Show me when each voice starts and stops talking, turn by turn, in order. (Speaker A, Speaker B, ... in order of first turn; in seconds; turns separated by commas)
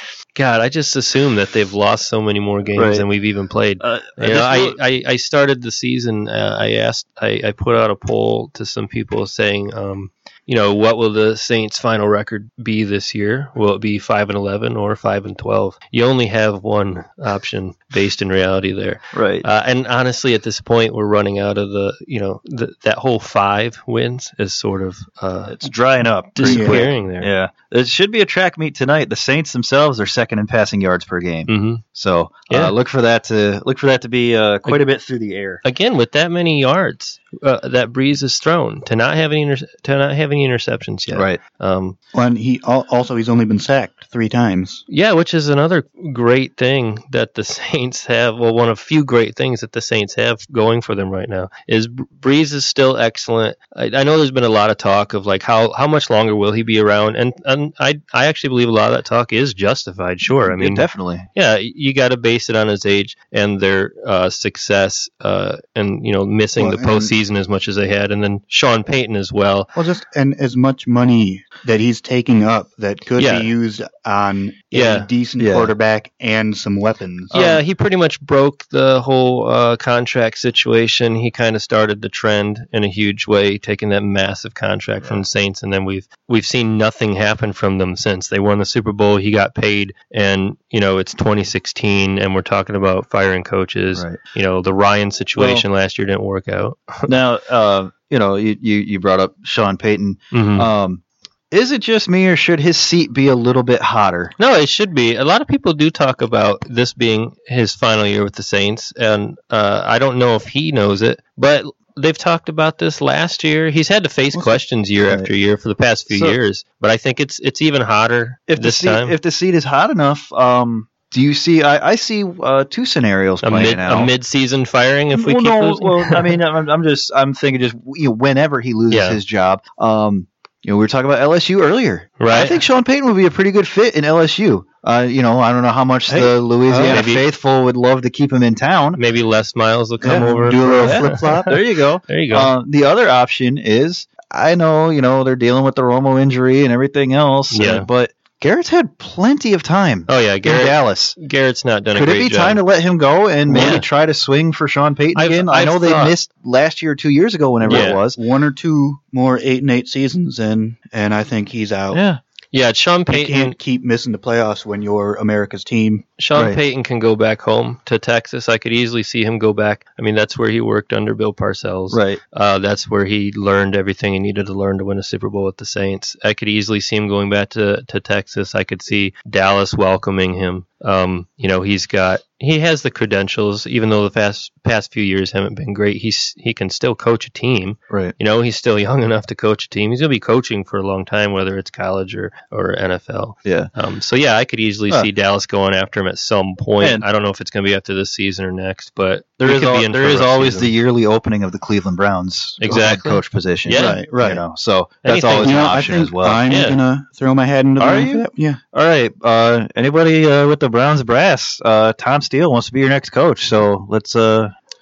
Speaker A: 0.3-25.6, Speaker B: 2.8-3.0, Speaker B: 3.8-4.8, Speaker B: 19.1-19.4, Speaker B: 25.5-35.6, Speaker A: 26.4-27.3, Speaker C: 26.4-26.8, Speaker A: 31.5-31.8, Speaker A: 35.6-42.0, Speaker B: 41.1-41.4, Speaker C: 42.1-44.8, Speaker A: 44.9-69.7, Speaker B: 60.4-61.3, Speaker C: 66.5-67.1, Speaker C: 69.7-77.3, Speaker A: 73.2-73.5, Speaker A: 74.7-75.1, Speaker B: 75.4-75.7, Speaker B: 77.3-77.6, Speaker A: 77.3-97.1, Speaker B: 95.3-95.7, Speaker B: 97.0-104.3, Speaker A: 100.3-100.7, Speaker A: 104.4-119.2, Speaker B: 115.0-115.3, Speaker B: 116.1-116.4, Speaker B: 118.5-124.1, Speaker A: 123.4-126.4, Speaker B: 125.1-139.0, Speaker A: 128.9-129.2, Speaker A: 132.2-132.6, Speaker C: 136.1-137.2, Speaker A: 136.9-137.2, Speaker A: 138.9-142.5, Speaker C: 140.0-141.5, Speaker B: 140.0-151.2, Speaker A: 147.5-147.9, Speaker A: 150.1-152.6, Speaker B: 151.9-158.2, Speaker A: 153.5-153.9, Speaker C: 153.5-153.8, Speaker A: 155.1-156.1, Speaker C: 157.6-162.0, Speaker A: 157.6-158.0, Speaker B: 161.9-162.2, Speaker A: 162.5-163.5, Speaker C: 163.1-166.0, Speaker A: 166.2-200.7, Speaker B: 166.3-166.6, Speaker B: 171.9-172.2, Speaker B: 193.4-193.7, Speaker B: 196.8-197.0, Speaker B: 199.4-206.4, Speaker A: 202.6-204.0, Speaker C: 203.7-204.4, Speaker A: 205.0-205.8, Speaker C: 205.3-208.6, Speaker A: 206.5-206.8, Speaker B: 207.8-214.5